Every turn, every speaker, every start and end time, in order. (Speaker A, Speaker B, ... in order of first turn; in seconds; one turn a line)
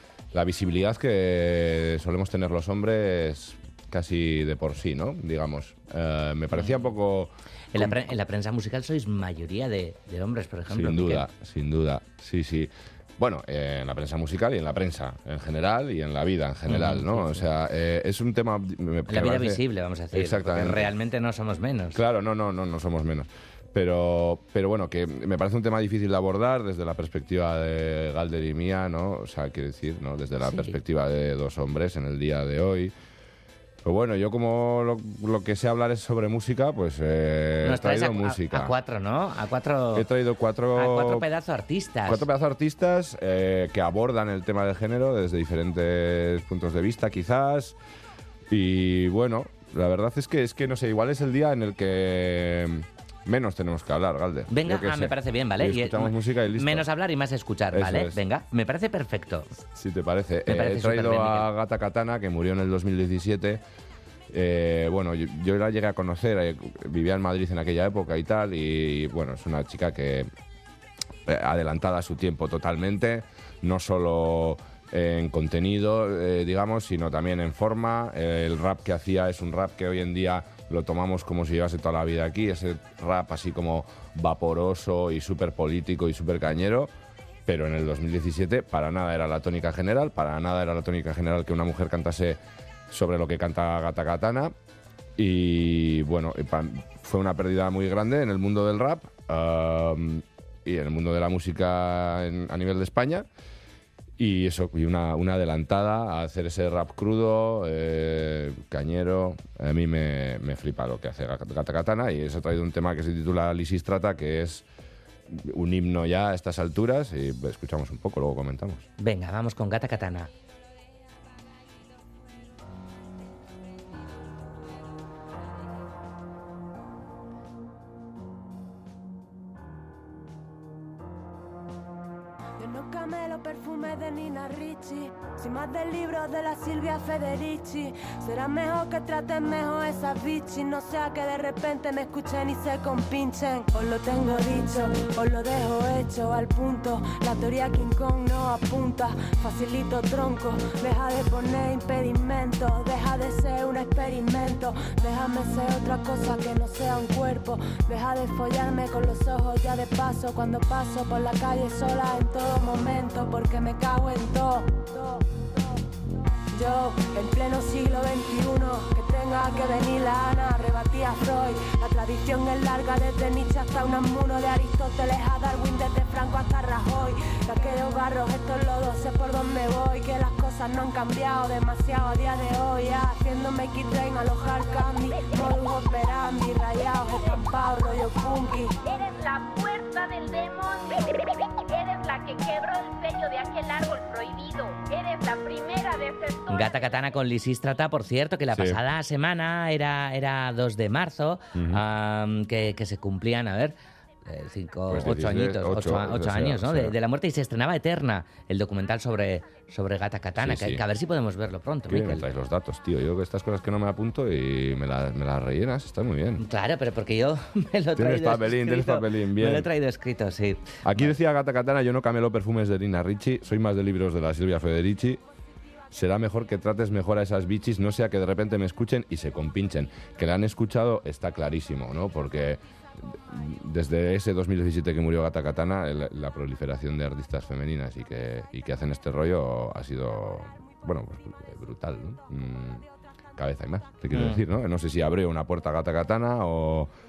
Speaker A: 0.3-8.1
Speaker B: 6.5-6.9
Speaker B: 7.7-11.2
Speaker A: 10.7-19.6
Speaker B: 16.7-17.5
Speaker B: 19.1-22.0
Speaker A: 20.1-20.9
Speaker A: 21.9-32.9
Speaker B: 30.4-30.8
Speaker A: 33.8-38.7
Speaker B: 37.6-40.0
Speaker A: 39.9-41.2
Speaker B: 40.8-42.2
Speaker A: 42.1-47.8
Speaker A: 48.5-56.9
Speaker B: 54.5-59.5
Speaker A: 57.7-58.1
Speaker A: 59.8-63.6
Speaker B: 60.5-61.5
Speaker A: 64.3-70.3
Speaker A: 71.3-86.9
Speaker A: 87.5-92.4
Speaker A: 92.9-94.5
Speaker A: 95.2-103.2
Speaker A: 104.2-114.6
Speaker A: 115.3-118.8
Speaker B: 119.0-120.3
Speaker C: 132.6-165.7
Speaker C: 166.5-188.7
Speaker D: 188.8-197.0
Speaker B: 196.5-203.7
Speaker A: 198.5-198.8
Speaker A: 201.6-201.8
Speaker B: 204.2-212.3
Speaker A: 204.9-206.9
Speaker A: 210.4-210.8
Speaker A: 211.9-216.4
Speaker B: 216.4-221.1
Speaker A: 218.0-219.7
Speaker A: 220.8-225.2
Speaker A: 225.9-242.8
Speaker A: 243.3-246.9
Speaker B: 244.1-244.4